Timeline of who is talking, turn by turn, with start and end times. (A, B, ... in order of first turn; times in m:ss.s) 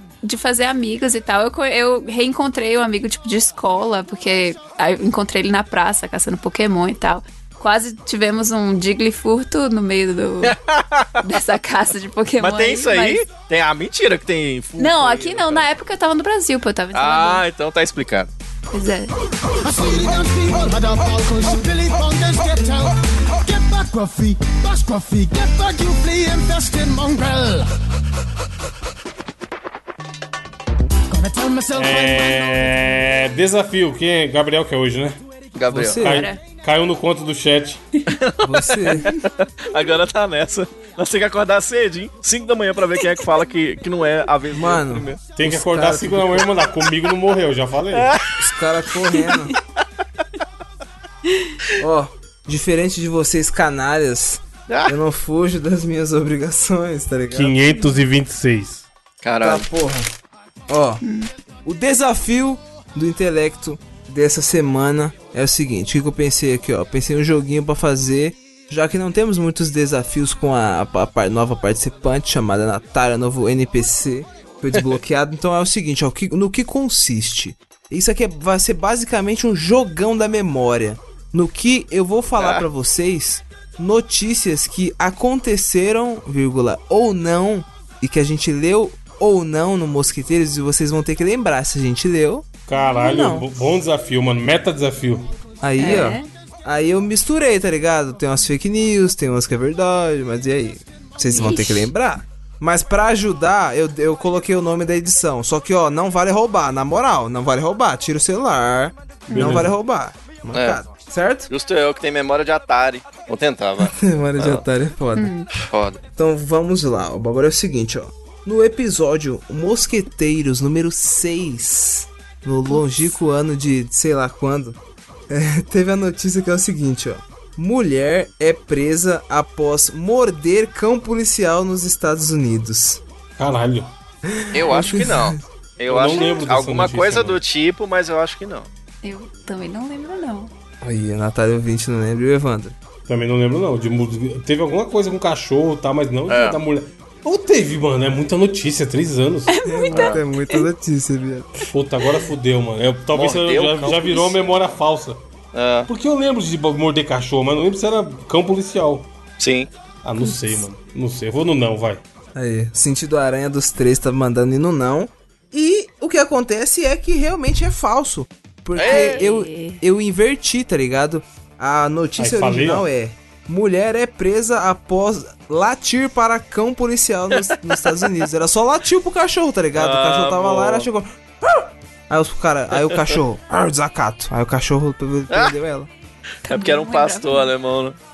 0:00.2-0:10.6 A
0:10.4-0:11.2 B
0:11.2-0:13.2 A
0:12.4-0:15.7 B
0:14.8-0:17.4 A
0:16.9-0:18.3 B
0:18.7-0:19.1 A
0:19.6-0:27.7 C
0:31.1-0:32.8 C
0:31.7-0:35.2 D
0:35.6-0:36.0 B
0:35.7-0:36.3 E
0:36.0-0:38.2 D
0:36.0-0:36.4 A
0:38.1-0:45.2 B
0:38.4-0:39.1 E
0:44.5-0:46.5 E
0:45.4-0:48.2 D
0:47.9-0:48.3 B
0:48.4-0:49.5 E
0:51.3-0:51.6 A
0:51.8-0:57.6 E
0:54.7-0:54.9 B
0:57.3-0:58.9 D
0:59.2-0:59.7 B
0:59.4-1:00.1 E
1:00.7-1:01.0 E
1:01.0-1:01.3 A
1:01.6-1:33.5 E
1:22.4-1:22.7 B
1:32.7-1:35.3 D
1:35.6-1:51.5 E
1:35.8-1:36.3 A
1:41.3-1:41.9 A
1:49.3-1:49.7 A
1:49.3-1:49.7 D
1:50.5-1:50.8 B
1:51.5-1:54.6 B
1:53.9-1:55.3 E
1:55.2-1:55.5 A
1:55.5-1:56.0 B
1:56.2-2:04.8 E
2:02.7-2:03.1 A
2:05.3-2:13.0 E
2:13.4-2:13.9 D
2:14.3-2:15.4 E
2:14.5-2:18.7 B
2:15.9-2:17.4 D
2:19.0-2:20.5 A
2:20.8-2:22.8 E
2:23.1-2:29.6 D
2:26.3-2:26.6 B
2:29.5-2:30.7 A
2:29.6-2:31.7 E
2:29.9-2:30.2 B
2:31.7-2:35.2 D
2:33.1-2:34.4 B
2:35.5-2:35.9 B
2:35.9-2:39.1 D
2:39.4-2:39.7 B
2:40.0-2:42.0 D
2:40.2-2:40.6 A
2:42.4-3:05.9 E
2:48.8-2:49.2 B
2:48.8-2:49.8 A
2:52.2-2:52.9 D
2:57.4-2:57.9 B
2:59.8-3:00.9 B
3:02.8-3:03.2 B
3:05.3-3:05.6 B
3:06.4-3:08.0 B
3:06.5-3:07.5 A